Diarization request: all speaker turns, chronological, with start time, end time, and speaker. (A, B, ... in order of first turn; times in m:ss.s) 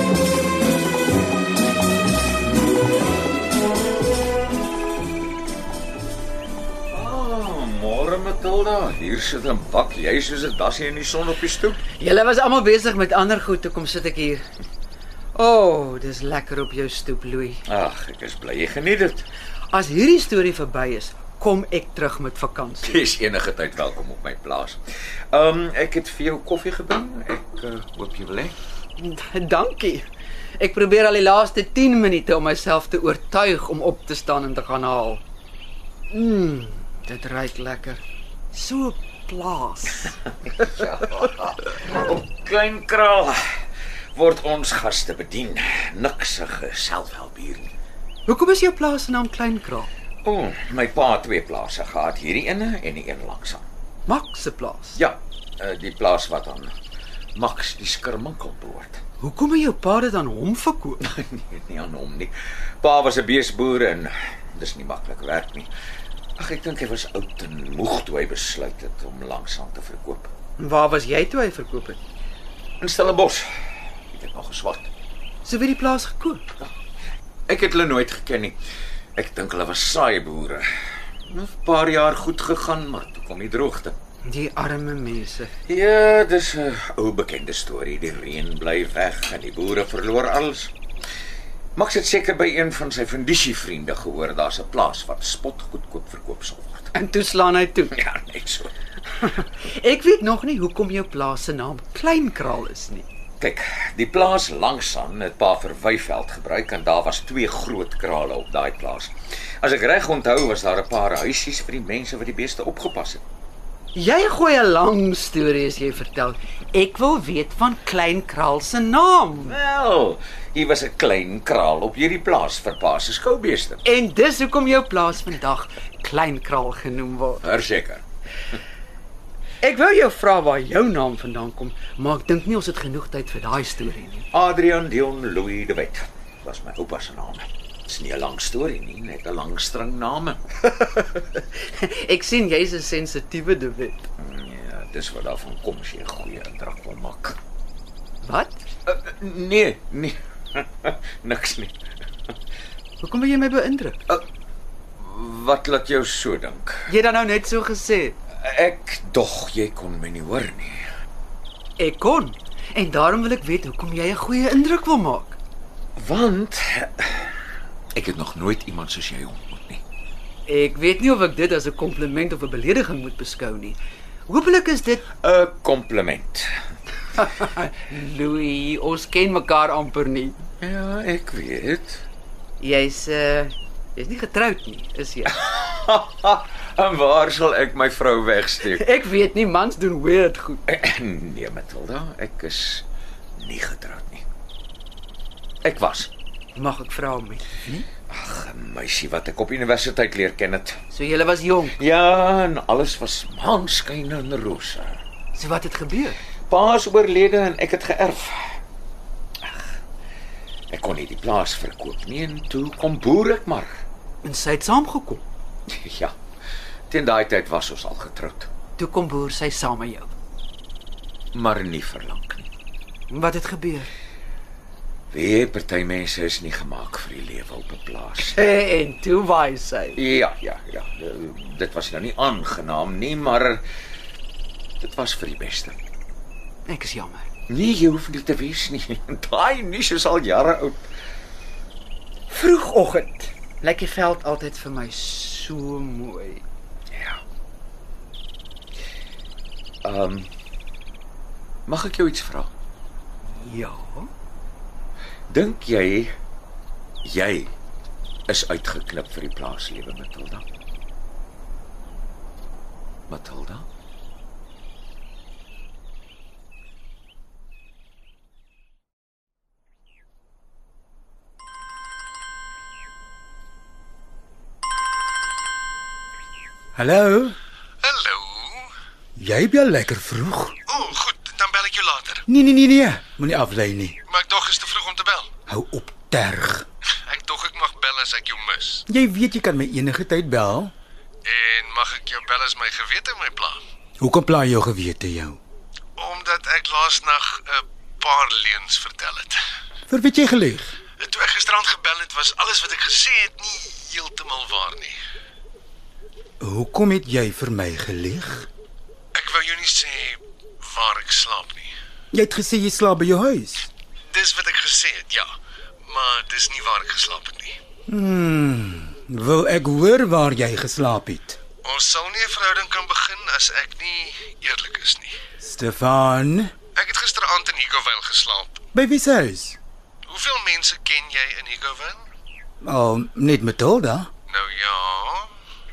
0:06.9-0:11.8 A
0:12.0-0:14.4 B
0:15.3-0:17.6 B
0:17.6-0:19.2 A
0:19.7-0:23.0 B
0:22.8-0:28.6 A
0:29.0-0:30.1 B
0:30.6-0:35.2 B
0:36.1-0:40.1 B
0:40.6-0:47.7 A
0:48.3-0:49.9 B
0:50.2-0:53.6 A
0:54.1-0:55.0 B
0:55.0-0:56.7 A
0:57.3-0:59.0 A
0:59.2-1:01.0 B
1:01.0-1:05.7 A
1:06.4-1:10.3 A
1:10.6-1:12.0 B
1:12.8-1:13.5 A
1:14.1-1:14.9 A
1:15.4-1:16.5 B
1:17.5-1:18.6 A
1:19.2-1:20.6 A
1:21.2-1:24.0 A
1:24.2-1:25.5 B
1:25.7-1:30.7 A
1:31.7-1:36.9 A
1:36.9-1:37.9 B
1:37.9-1:38.7 A
1:39.2-1:43.0 B
1:43.4-1:53.2 A
1:53.9-1:59.6 B
1:59.5-2:03.8 A
2:03.8-2:07.4 B
2:07.4-2:08.0 A
2:09.6-2:14.2 B
2:14.3-2:20.4 A
2:20.8-2:24.0 B
2:24.2-2:27.4 A
2:28.2-2:28.6 B
2:28.8-2:31.7 A
2:33.0-2:34.0 B
2:35.0-2:36.9 A
2:36.9-2:38.2 B
2:38.4-2:40.9 A
2:41.8-2:45.4 B
2:46.0-2:47.3 A
2:47.9-2:49.8 A
2:50.4-2:55.1 B
2:55.2-2:56.5 A
2:57.1-3:00.4 B
3:00.6-3:02.0 A
3:02.6-3:05.3 B
3:05.4-3:08.8 A
3:08.7-3:10.6 B
3:10.7-3:12.8 A
3:13.4-3:14.2 A
3:15.6-3:16.1 A
3:16.5-3:17.4 B
3:18.1-3:20.8 A
3:20.9-3:21.8 B
3:21.8-3:25.0 A
3:25.3-3:26.2 B
3:26.5-3:28.6 A
3:29.4-3:29.7 A
3:30.7-3:33.8 A
3:34.2-3:35.2 B
3:35.7-3:36.1 A
3:36.9-3:38.5 A
3:38.8-3:40.1 B
3:41.3-3:42.5 A
3:43.1-3:43.9 B
3:45.1-3:48.5 A
3:48.2-3:50.1 B
3:50.0-3:53.6 A
3:54.8-3:55.8 A
3:56.6-3:57.3 B
3:57.5-4:00.8 A
4:02.3-4:06.4 B
4:06.9-4:07.2 A
4:09.8-4:10.3 A
4:11.7-4:12.5 A
4:13.2-4:14.1 B
4:15.3-4:16.2 A
4:17.0-4:17.5 A
4:18.3-4:20.4 A
4:23.1-4:23.6 A
4:36.7-4:37.4 C
4:37.8-4:38.5 D
4:39.2-4:40.5 C
4:40.7-4:42.2 D
4:42.3-4:44.0 C
4:44.1-4:45.3 D
4:45.5-4:46.6 C
4:47.0-4:48.8 D
4:48.9-4:50.7 C
4:51.2-4:53.6 D
4:54.0-4:55.4 C
4:56.0-4:59.4 D
4:59.9-5:00.7 C
5:01.0-5:05.0 D
5:06.4-5:08.5 C
5:09.1-5:11.7 D
5:12.1-5:13.7 C
5:14.1-5:15.3 D
5:15.9-5:17.6 D
5:17.9-5:21.4 C
5:21.6-5:25.1 D
5:25.4-5:26.5 C
5:26.8-5:28.6 D
5:28.7-5:29.6 C
5:30.1-5:32.1 D
5:32.6-5:34.1 C
5:34.3-5:35.3 D